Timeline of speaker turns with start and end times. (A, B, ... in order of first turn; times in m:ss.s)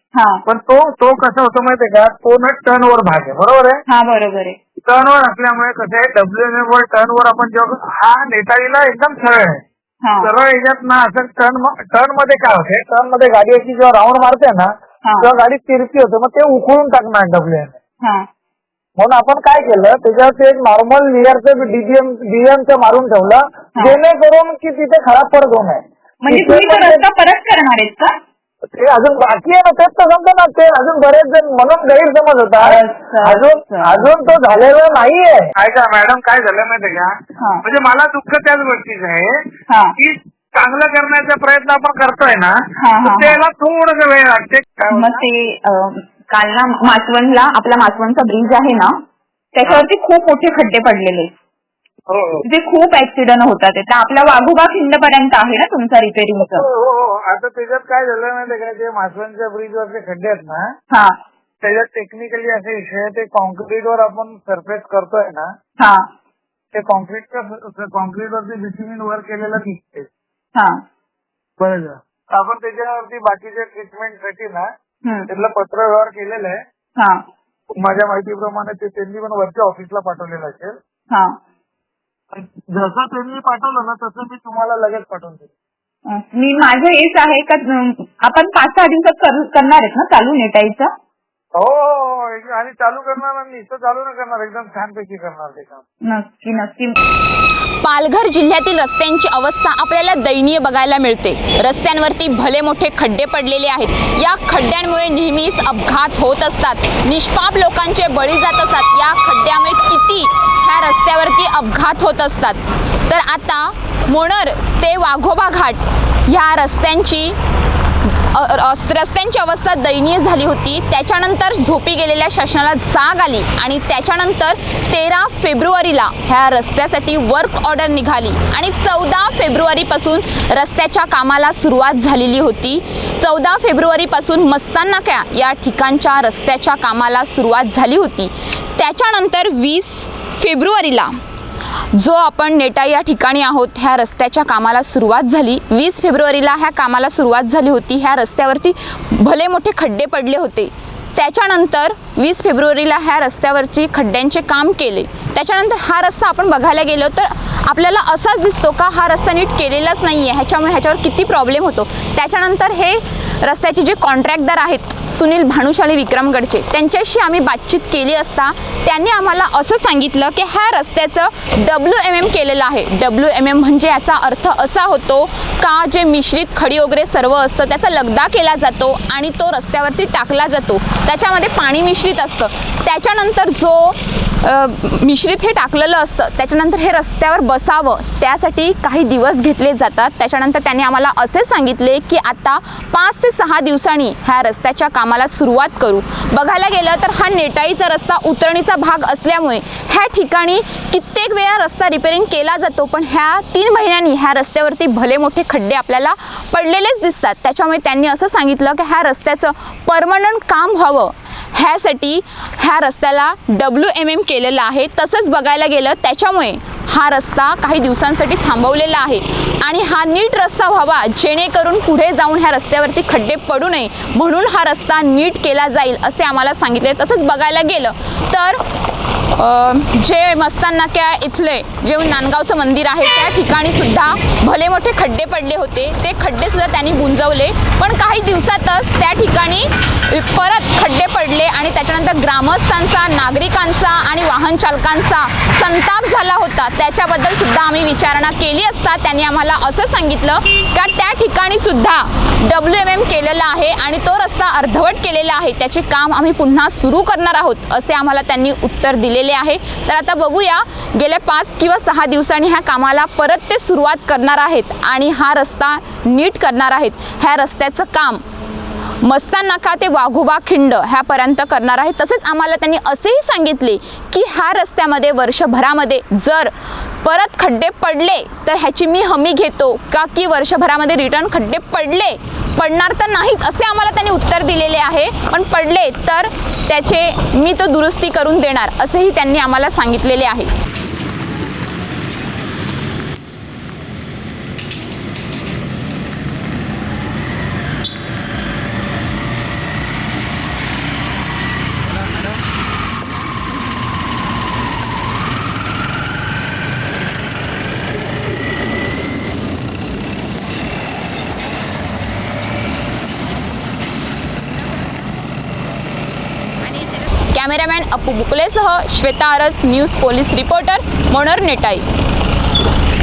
0:00.1-0:00.4 A
0:00.4-0:03.8 B
0:03.9-0:04.6 A
0:04.8-0:09.6 B
0:10.0-0:10.3 A
0:10.2-0:17.8 B
0:15.0-0:15.3 A
0:19.0-0:27.0 B
0:26.2-0:28.1 A
0:28.7-0:39.3 B
0:32.6-0:34.1 A
0:39.7-0:39.9 A
0:40.0-0:45.2 B
0:42.8-0:43.4 A
0:44.9-0:48.9 A
0:49.5-0:51.3 A
0:52.1-0:52.4 B
0:52.4-0:56.6 A
0:56.4-1:00.7 B
1:01.6-1:05.5 B
1:06.7-1:10.1 B
1:10.5-1:10.8 A
1:11.6-1:14.7 B
1:15.0-1:15.3 A
1:15.3-1:16.6 B
1:17.8-1:20.8 B
1:21.1-1:21.4 A
1:22.3-1:25.5 B
1:26.1-1:30.9 A
1:31.6-1:35.8 B
1:36.0-1:37.0 A
1:37.8-1:57.4 C
1:58.0-2:21.1 C
2:21.9-3:48.6 C
3:49.3-4:28.2 C
4:29.0-4:50.5 C
5:16.6-5:21.9 C